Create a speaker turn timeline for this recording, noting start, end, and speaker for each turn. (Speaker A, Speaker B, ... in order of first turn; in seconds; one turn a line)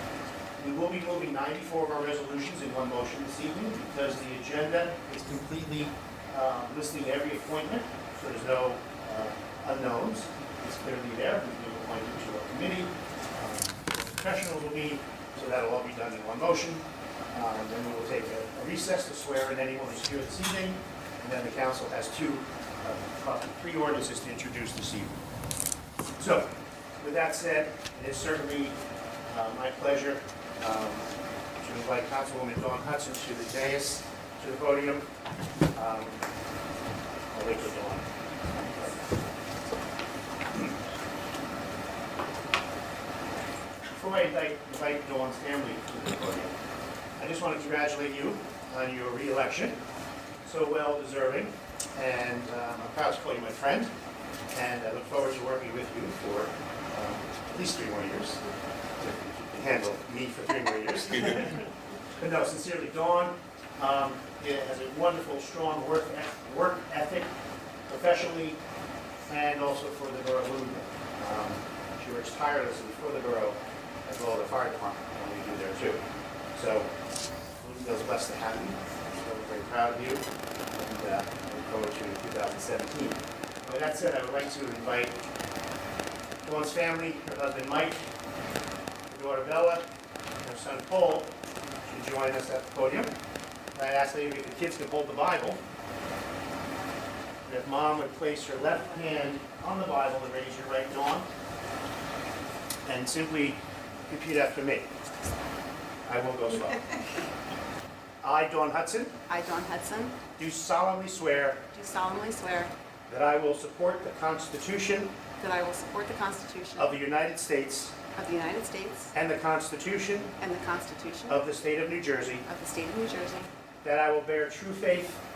Speaker A: 0.6-25.1
Speaker A: 26.2-31.1
Speaker A: 31.6-35.1
Speaker A: 35.7-36.2
Speaker A: 37.3-39.1
Speaker A: 44.0-46.5
Speaker A: 47.2-49.8
Speaker A: 50.4-53.9
Speaker A: 54.5-58.4
Speaker A: 59.0-61.6
Speaker A: 62.2-67.3
Speaker A: 67.9-68.6
Speaker A: 69.3-76.0
Speaker A: 76.5-76.9
Speaker A: 77.6-85.2
Speaker A: 86.4-88.0
Speaker A: 89.1-89.9
Speaker A: 90.4-91.3
Speaker A: 91.8-93.1
Speaker A: 93.7-95.6
Speaker A: 97.4-101.3
Speaker A: 102.8-104.9
Speaker A: 106.0-107.0
Speaker A: 108.2-109.2
Speaker B: 109.3-110.2
Speaker A: 110.4-111.7
Speaker B: 111.7-112.7
Speaker A: 113.1-115.1
Speaker B: 115.4-117.0
Speaker A: 116.8-118.0
Speaker B: 118.2-119.1
Speaker A: 119.1-120.3
Speaker B: 120.4-121.4
Speaker A: 121.3-122.5
Speaker B: 122.5-123.5
Speaker A: 123.8-125.2